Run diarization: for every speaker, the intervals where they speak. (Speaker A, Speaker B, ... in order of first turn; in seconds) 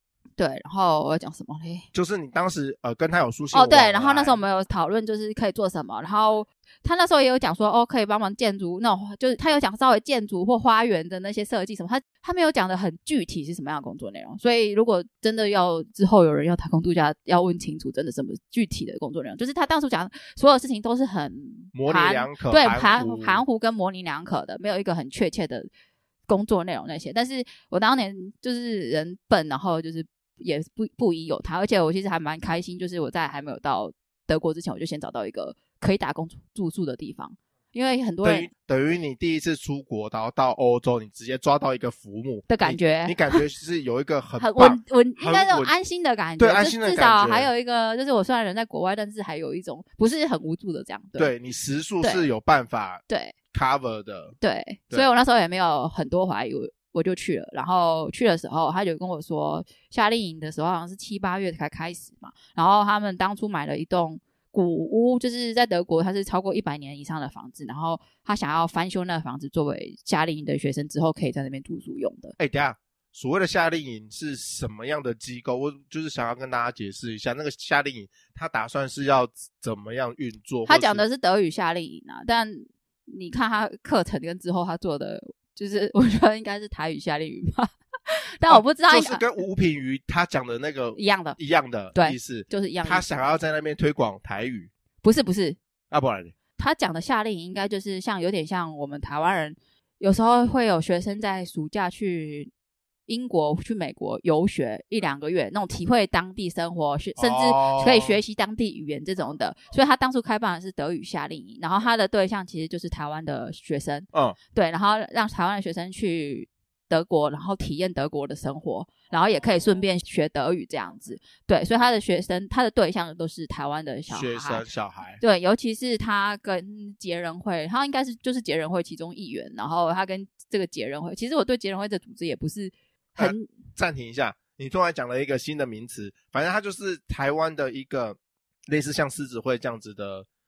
Speaker A: 0.4-1.9, 3.5-25.7, 26.3-38.5, 42.5-43.4, 44.4-51.3, 53.1-53.4, 54.4-72.4, 80.7-89.3, 91.0-91.4, 92.0-93.1, 95.0-95.6, 96.6-102.5, 103.1-124.6, 125.2-133.5
Speaker B: 1.9-4.4, 21.7-23.4, 38.2-45.7, 46.4-47.5, 51.2-54.4, 72.4-81.0, 88.5-94.7, 95.9-96.3, 107.2-108.2, 124.1-125.2, 133.2-138.2, 138.7-140.3